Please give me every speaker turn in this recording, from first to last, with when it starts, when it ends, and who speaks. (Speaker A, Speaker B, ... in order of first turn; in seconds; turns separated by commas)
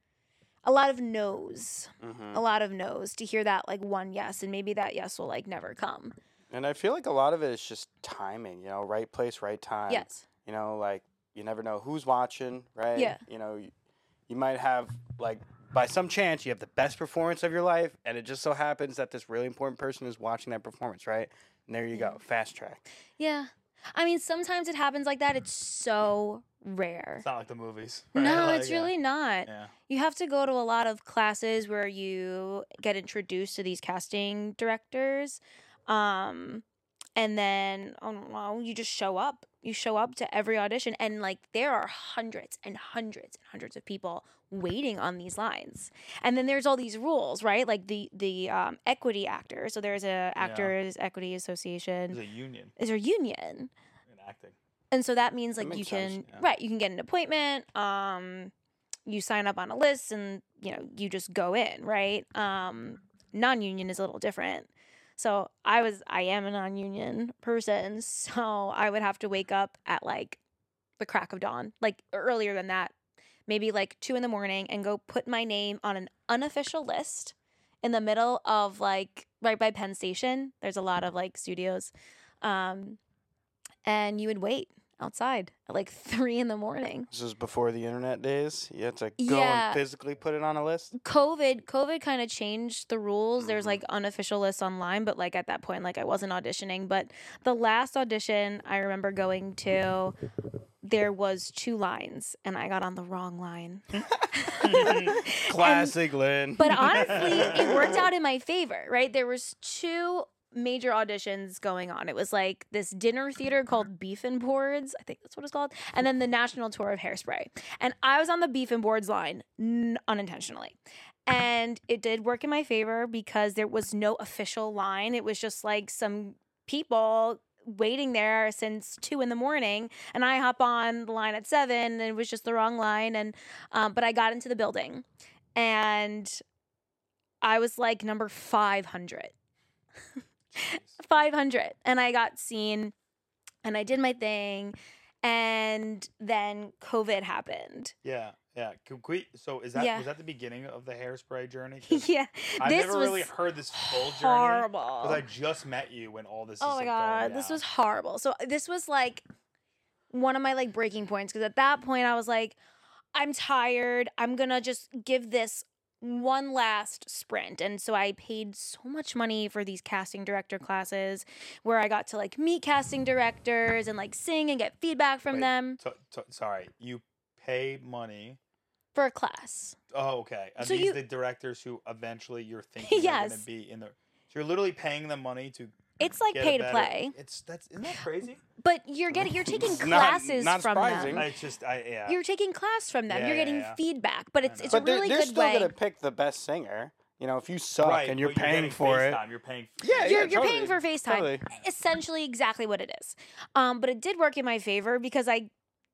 Speaker A: 0.6-6.2, Speaker B: 2.0-2.4, Speaker B: 6.5-13.7, Speaker A: 9.9-10.2, Speaker A: 12.9-13.2, Speaker B: 14.3-22.8, Speaker A: 23.2-27.2, Speaker C: 27.2-28.9, Speaker A: 28.1-36.6, Speaker C: 29.4-29.7, Speaker A: 37.1-52.2, Speaker C: 50.4-50.8, Speaker C: 52.1-52.7, Speaker A: 52.8-53.7, Speaker C: 54.1-54.5, Speaker A: 54.9-58.5, Speaker B: 55.6-56.2, Speaker A: 59.1-70.4, Speaker A: 71.0-72.9, Speaker A: 73.5-83.0, Speaker A: 83.8-87.1, Speaker B: 87.1-90.9, Speaker A: 89.2-89.8, Speaker A: 90.9-100.2, Speaker B: 93.4-93.8, Speaker A: 100.8-106.0, Speaker C: 104.6-105.2, Speaker B: 105.2-108.0, Speaker A: 106.5-135.0, Speaker C: 106.9-107.6, Speaker A: 135.5-136.4, Speaker A: 137.4-139.3, Speaker C: 140.5-141.0, Speaker A: 140.6-142.9, Speaker A: 143.6-147.9, Speaker C: 148.0-152.1, Speaker A: 149.8-150.1, Speaker A: 151.9-155.2, Speaker C: 152.6-157.6, Speaker A: 156.6-159.2, Speaker A: 160.1-162.6, Speaker A: 163.1-175.8, Speaker C: 175.3-178.4, Speaker A: 178.9-179.8, Speaker C: 179.9-188.4, Speaker A: 180.6-181.0, Speaker A: 182.8-183.4, Speaker A: 186.0-187.1, Speaker A: 188.6-191.3, Speaker B: 189.1-191.3, Speaker C: 191.1-192.2, Speaker A: 192.1-195.7, Speaker C: 193.1-193.8, Speaker C: 194.4-194.8, Speaker B: 194.7-199.2, Speaker C: 197.8-200.7, Speaker B: 199.8-201.4, Speaker A: 200.0-205.5